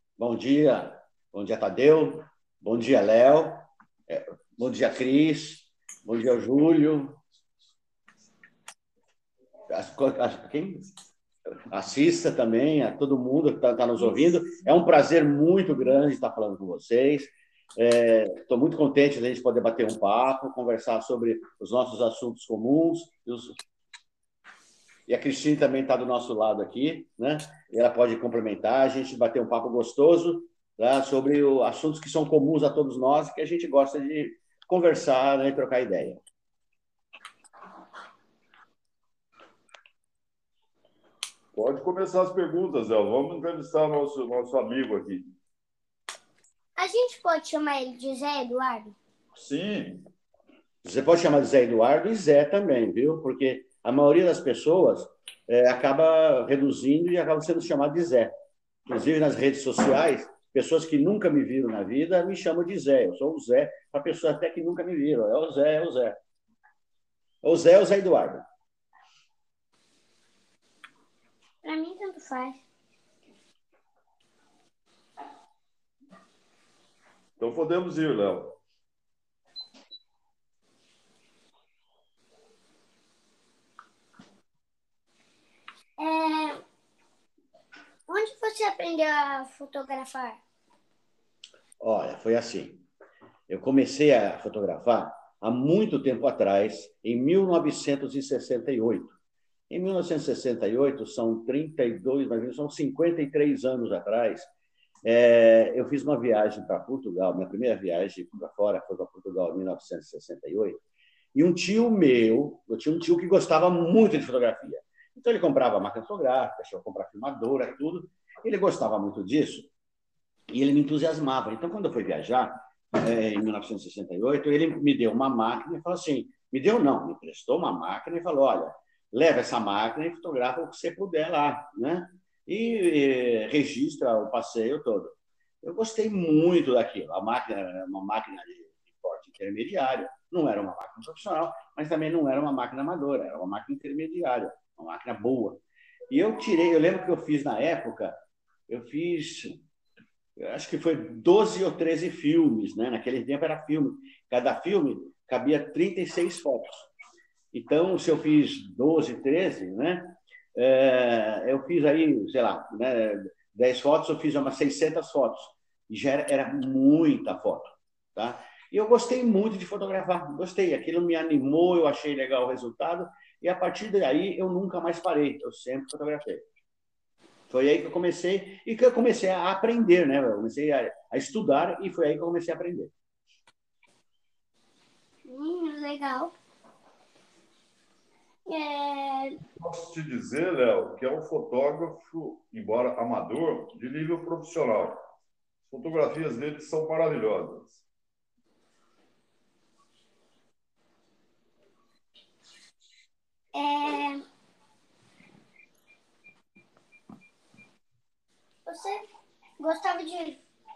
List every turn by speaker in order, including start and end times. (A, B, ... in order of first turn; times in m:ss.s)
0:00.2-0:07.2 A
0:09.7-0:10.9 A
0:11.7-0:23.6 A
0:25.1-0:36.2 A
0:41.5-0:45.3 B
0:46.8-0:48.9 C
0:49.3-0:50.0 B
0:50.8-0:58.3 A
0:58.9-1:06.2 A
1:07.4-1:08.4 A
1:11.6-1:12.6 C
1:17.4-1:18.6 B
1:26.0-1:26.6 C
1:28.1-1:30.4 C
1:31.8-1:32.8 A
1:33.5-1:39.1 A
1:39.7-1:44.5 A
1:45.0-1:50.8 A
1:51.3-1:59.7 A
2:00.5-2:29.6 A
2:30.4-2:36.9 A
2:37.5-2:56.4 A
2:57.5-3:02.9 A
3:05.2-3:06.3 C
3:08.5-3:09.4 C
3:09.6-3:15.0 B
3:15.7-3:17.8 B
3:23.5-3:24.2 C
3:28.6-3:29.0 C
3:29.6-3:30.4 C